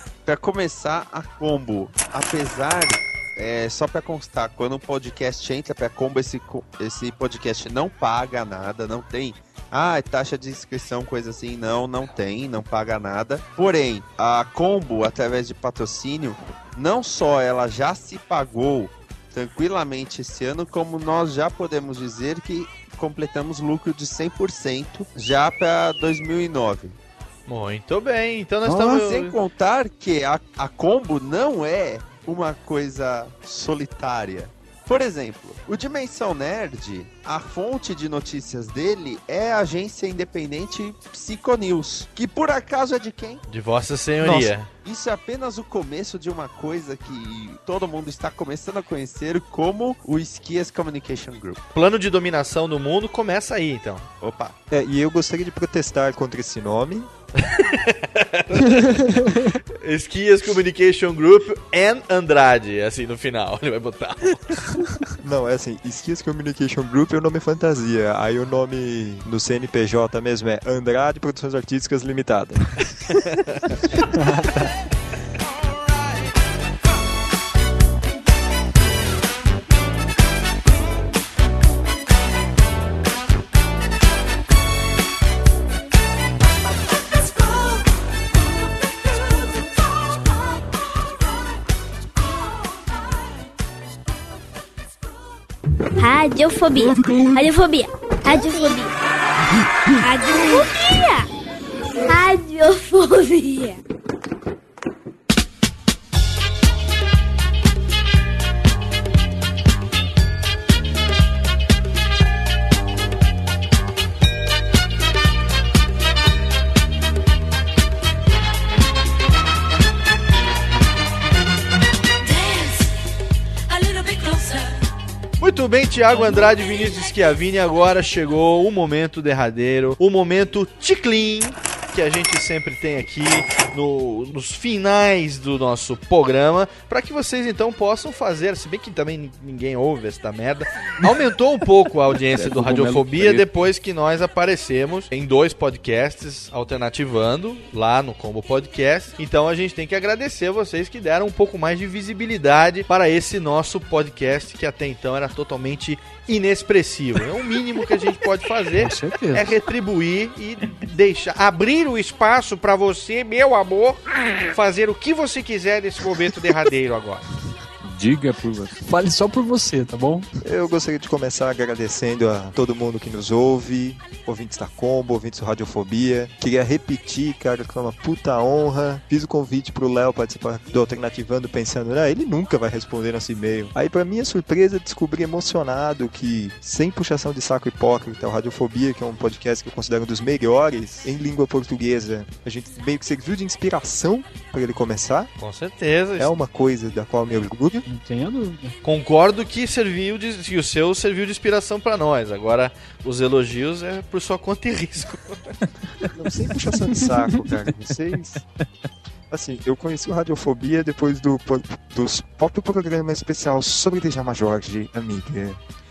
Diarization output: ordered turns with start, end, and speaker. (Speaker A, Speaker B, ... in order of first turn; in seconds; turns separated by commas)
Speaker A: 0.2-27.0, Speaker B: 27.5-29.4, Speaker C: 28.6-29.0, Speaker A: 28.9-43.4, Speaker B: 43.5-44.7, Speaker A: 44.3-51.6, Speaker B: 51.7-54.1, Speaker A: 54.2-54.6, Speaker D: 54.7-57.1, Speaker B: 57.5-59.0, Speaker C: 58.9-59.5, Speaker B: 59.8-64.6, Speaker D: 65.2-72.7, Speaker C: 74.2-74.6, Speaker E: 96.0-98.9, Speaker E: 100.0-101.3, Speaker E: 102.0-103.8, Speaker B: 125.4-167.3, Speaker F: 142.3-143.5, Speaker C: 158.8-159.5, Speaker F: 167.8-168.8, Speaker C: 168.8-170.3, Speaker D: 170.4-195.3, Speaker B: 195.4-196.3, Speaker D: 196.2-197.8, Speaker C: 197.9-198.7, Speaker B: 198.8-205.5, Speaker D: 206.1-208.4, Speaker D: 209.3-215.6